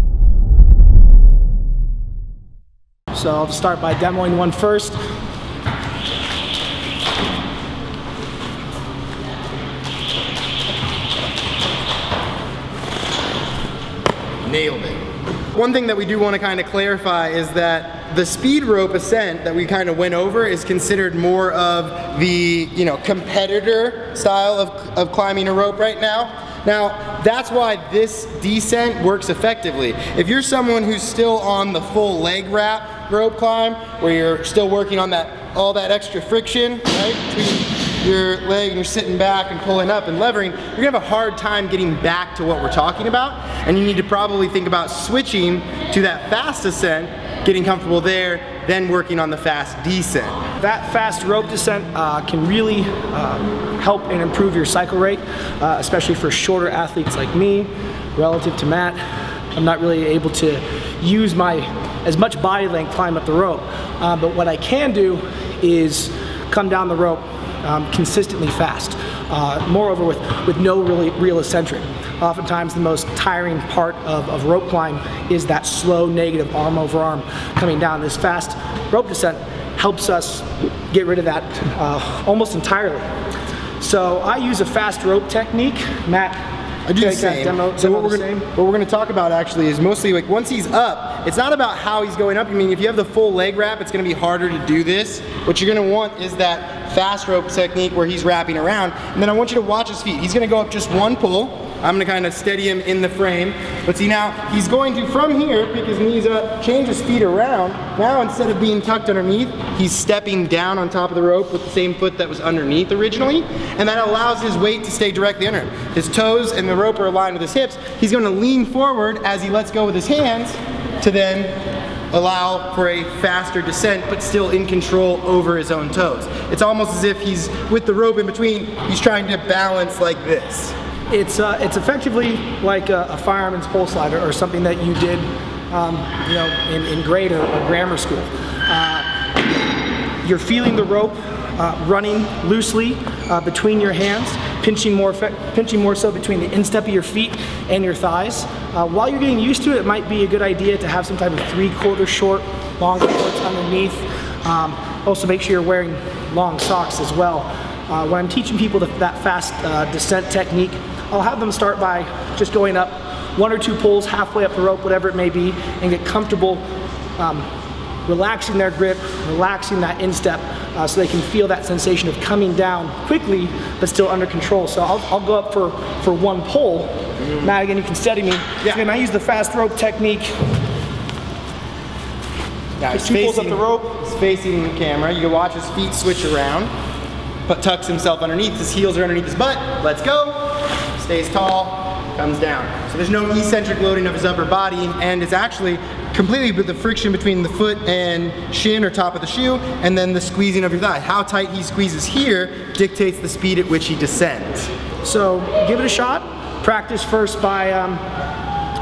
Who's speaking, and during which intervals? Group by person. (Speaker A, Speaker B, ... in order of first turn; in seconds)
Speaker A: 3.1-5.0, 50.6-59.0, 59.5-83.1, 83.8-86.4, 87.0-88.5, 131.1-139.1, 140.2-166.6, 167.2-167.5, 168.1-180.3, 182.9-183.9, 205.0-208.0
Speaker B: 14.4-15.0, 15.6-50.4, 86.9-121.5, 122.1-130.8, 182.8-186.7, 187.5-204.7